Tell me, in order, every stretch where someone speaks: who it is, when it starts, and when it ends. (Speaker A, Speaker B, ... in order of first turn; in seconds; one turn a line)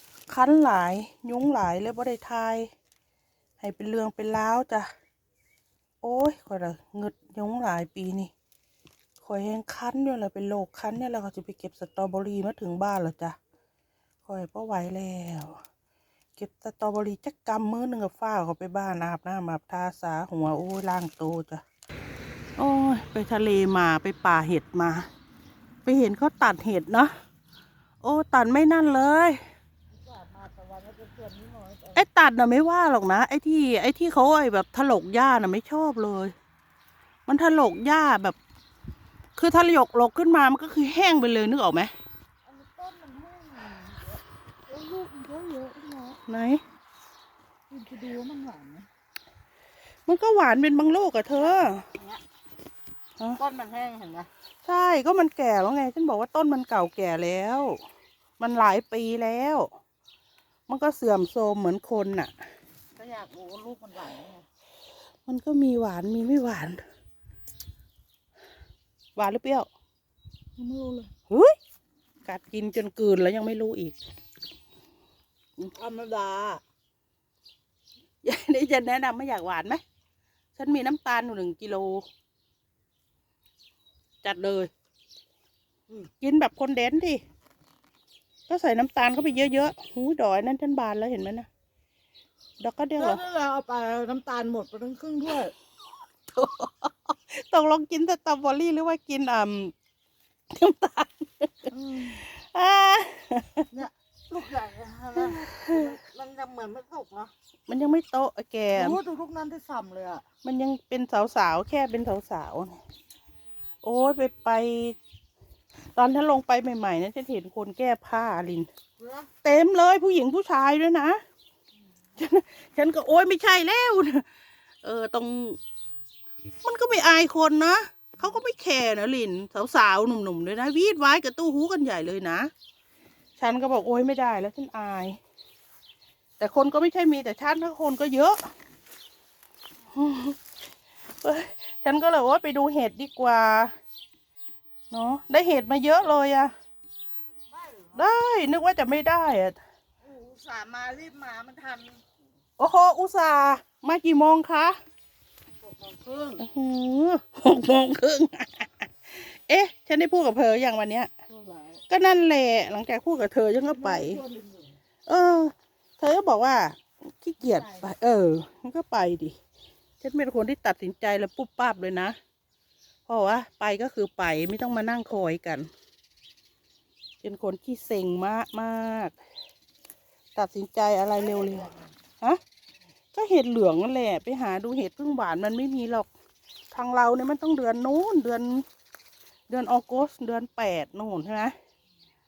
Speaker A: 0.3-2.7
Speaker A: 3.6-4.9
Speaker A: 6.0-8.3
Speaker A: 9.2-13.4
Speaker A: 14.2-15.6
Speaker A: 16.4-21.6
Speaker A: 22.6-25.1
Speaker A: 25.9-27.1
Speaker A: 28.0-29.4
Speaker B: 30.0-32.0
Speaker A: 31.9-36.3
Speaker A: 37.3-38.4
Speaker A: 39.4-41.9
Speaker B: 42.5-46.1
Speaker A: 46.1-46.6
Speaker B: 47.7-48.9
Speaker A: 50.1-51.9
Speaker B: 51.5-52.2
Speaker B: 53.4-54.3
Speaker A: 54.6-57.8
Speaker A: 58.4-59.7
Speaker A: 60.7-62.3
Speaker B: 63.0-64.5
Speaker A: 65.3-66.8
Speaker A: 69.2-69.7
Speaker B: 70.6-71.1
Speaker A: 71.2-71.6
Speaker A: 72.3-74.0
Speaker B: 75.8-76.6
Speaker A: 78.2-79.8
Speaker A: 80.6-82.0
Speaker A: 84.2-84.7
Speaker A: 86.0-87.2
Speaker A: 88.5-91.5
Speaker A: 92.6-93.2
Speaker B: 93.0-95.5
Speaker A: 96.3-99.7
Speaker A: 100.5-103.7
Speaker B: 101.7-102.2
Speaker B: 103.7-107.3
Speaker A: 105.2-105.8
Speaker A: 107.7-109.0
Speaker B: 108.7-110.2
Speaker A: 110.4-112.8
Speaker A: 113.8-115.0
Speaker A: 115.9-118.7
Speaker A: 119.4-121.2
Speaker A: 122.2-124.3
Speaker A: 124.8-125.6
Speaker A: 126.6-132.5
Speaker A: 133.4-135.2
Speaker A: 136.4-138.4
Speaker A: 139.9-140.4
Speaker A: 141.2-143.7
Speaker A: 144.9-146.5
Speaker B: 147.5-148.0
Speaker A: 147.9-149.6
Speaker B: 150.0-152.0
Speaker A: 152.6-154.8
Speaker B: 155.6-156.4
Speaker A: 156.4-161.1
Speaker B: 161.3-161.8
Speaker A: 161.9-164.2
Speaker B: 163.7-164.7
Speaker A: 165.1-169.4
Speaker B: 167.5-167.9
Speaker A: 170.0-172.2
Speaker A: 173.1-175.7
Speaker A: 177.2-179.2
Speaker A: 180.3-182.4
Speaker B: 181.3-181.9
Speaker A: 183.1-186.1
Speaker A: 186.7-188.7
Speaker A: 189.5-191.6